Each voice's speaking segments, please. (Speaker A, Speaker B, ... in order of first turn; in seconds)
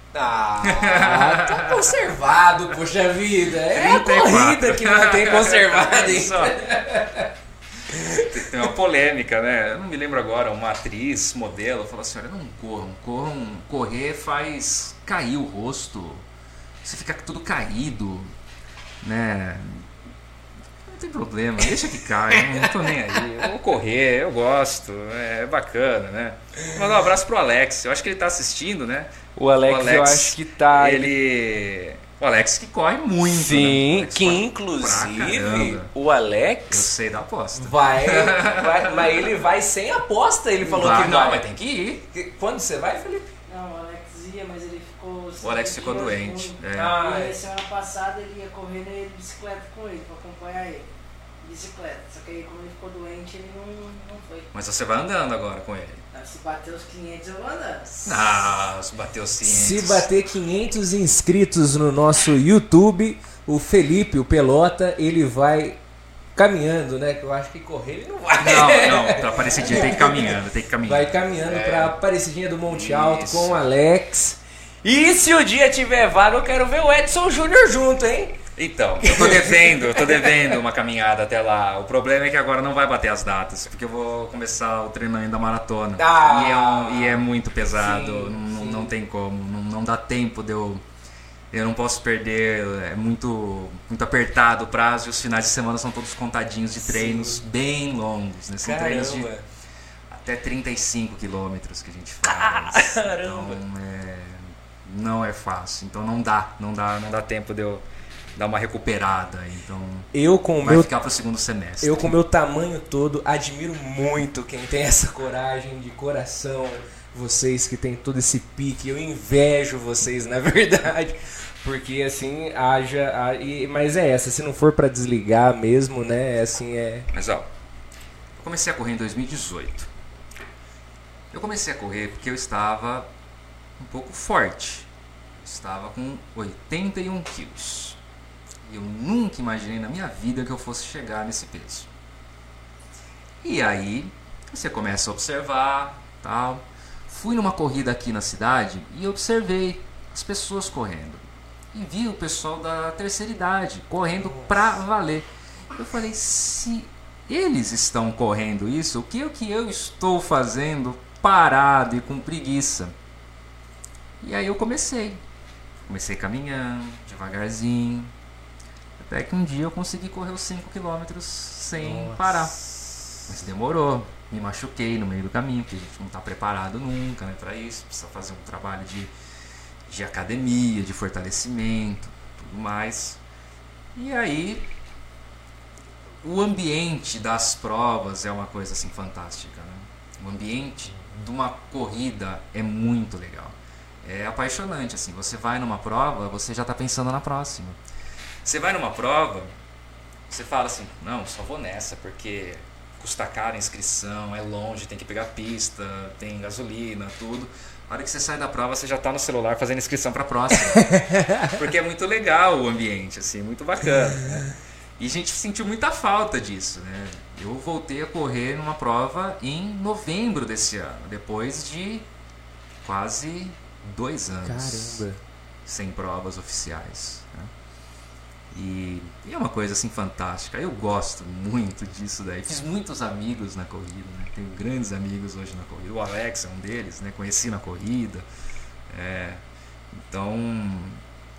Speaker A: 0.1-7.3, 7.9-8.3, 22.4-22.7, 29.3-31.1, 33.4-36.9, 37.5-41.4, 42.1-43.3, 46.7-47.4, 59.4-65.8, 66.3-78.4, 79.0-80.3, 86.0-88.9, 96.9-97.4, 98.6-99.4, 102.2-103.6, 110.1-110.9, 111.8-127.1, 154.2-154.5, 171.8-173.0, 224.4-225.2
Speaker B: 0.6-2.0, 3.7-6.8, 8.1-16.2, 16.8-18.3, 19.0-19.9, 20.8-35.9, 36.7-39.3, 40.6-42.0, 45.4-47.0, 54.5-56.0, 58.0-60.0, 68.4-72.0, 72.7-73.6, 78.5-90.8, 91.5-99.3, 100.1-107.8, 108.3-110.1, 110.6-112.1, 127.1-127.5, 128.4-129.9, 131.3-133.1, 133.8-134.9, 135.4-138.0, 138.7-141.9, 143.4-162.9, 164.2-165.2, 165.8-168.1, 169.0-172.5, 173.3-179.1, 179.9-183.2, 183.9-184.7, 186.2-197.8, 198.4-199.5, 200.3-214.5, 215.0-222.1, 222.8-225.0, 225.7-227.5, 228.5-238.2, 238.9-239.4, 240.0-241.0
Speaker C: 43.5-50.9, 51.4-54.5, 56.1-58.2